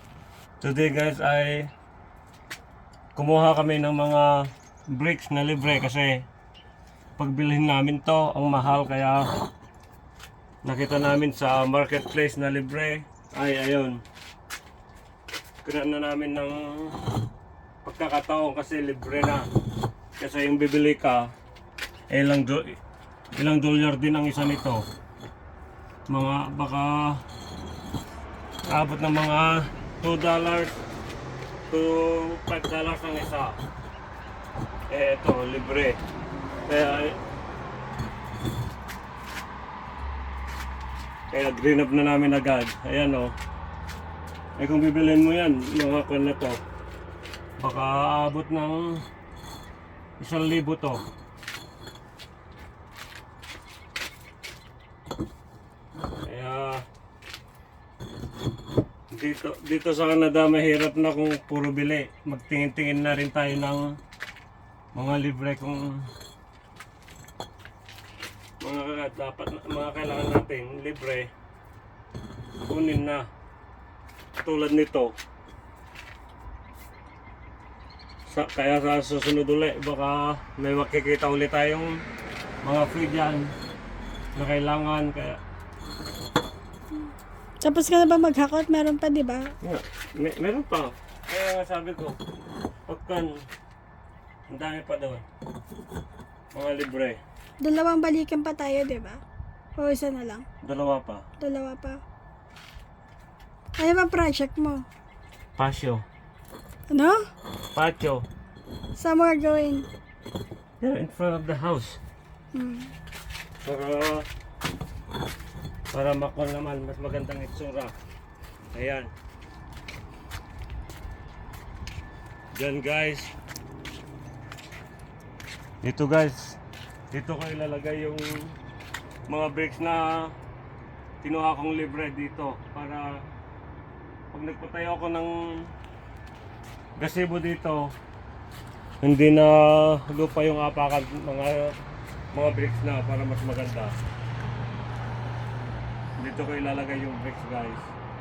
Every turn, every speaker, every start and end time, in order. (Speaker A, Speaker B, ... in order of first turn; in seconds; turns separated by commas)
Speaker A: 0.6-1.7, Speaker A: 3.1-6.3, Speaker A: 7.2-9.3, Speaker A: 10.6-14.0, Speaker A: 15.6-17.0, Speaker A: 17.9-19.5, Speaker A: 20.2-21.3, Speaker A: 22.1-22.8, Speaker A: 23.4-24.8, Speaker A: 26.1-27.2, Speaker A: 28.7-30.8, Speaker A: 31.7-33.6, Speaker A: 34.9-36.0, Speaker A: 36.7-37.2, Speaker A: 41.3-43.3, Speaker A: 44.6-46.6, Speaker A: 47.6-49.0, Speaker A: 50.2-51.0, Speaker A: 56.2-56.8, Speaker A: 59.2-64.0, Speaker A: 65.0-66.1, Speaker A: 68.6-71.3, Speaker A: 72.7-73.3, Speaker A: 74.4-75.1, Speaker A: 78.3-82.0, Speaker A: 82.6-83.5, Speaker A: 84.3-85.4, Speaker B: 87.6-89.5, Speaker A: 89.6-92.2, Speaker A: 92.9-93.4, Speaker A: 94.5-95.2, Speaker A: 96.5-97.2, Speaker B: 97.6-99.2, Speaker B: 99.8-100.5, Speaker A: 100.6-101.2, Speaker B: 101.4-102.0, Speaker B: 103.8-104.8, Speaker A: 105.6-106.0, Speaker B: 106.9-107.2, Speaker A: 107.8-108.2, Speaker B: 109.0-109.9, Speaker A: 110.8-112.0, Speaker B: 112.5-112.9, Speaker A: 113.6-114.3, Speaker A: 115.9-117.9, Speaker A: 118.7-119.1, Speaker A: 122.5-123.3, Speaker A: 125.8-126.6, Speaker A: 127.1-128.5, Speaker A: 129.3-130.3, Speaker A: 131.2-133.1, Speaker A: 134.3-135.3, Speaker A: 137.0-137.8, Speaker A: 139.0-141.7, Speaker A: 142.3-143.9, Speaker A: 146.2-147.9